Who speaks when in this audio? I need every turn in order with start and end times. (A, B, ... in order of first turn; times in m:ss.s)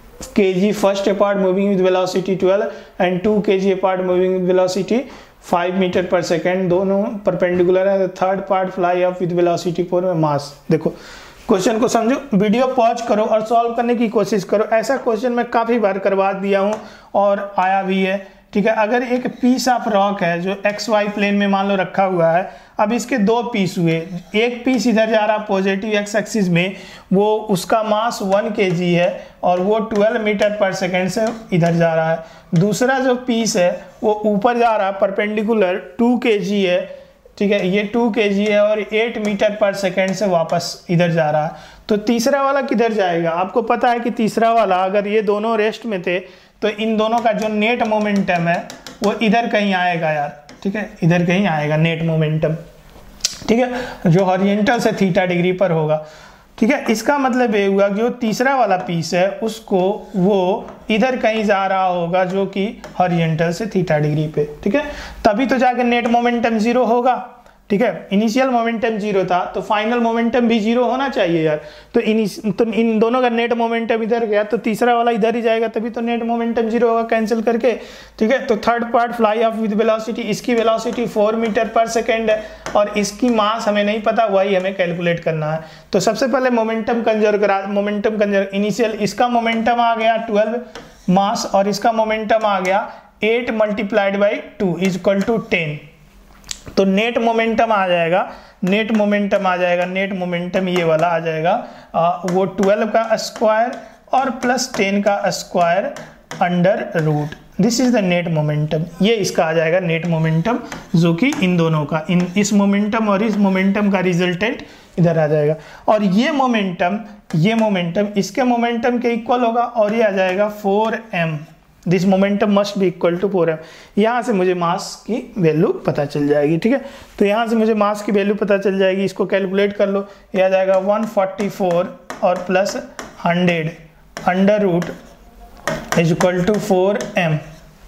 0:00.3-0:52.6 A
0:53.4-0:56.0 A
0:56.6-1:35.8 A
1:36.7-2:14.9 A
2:15.9-2:17.4 A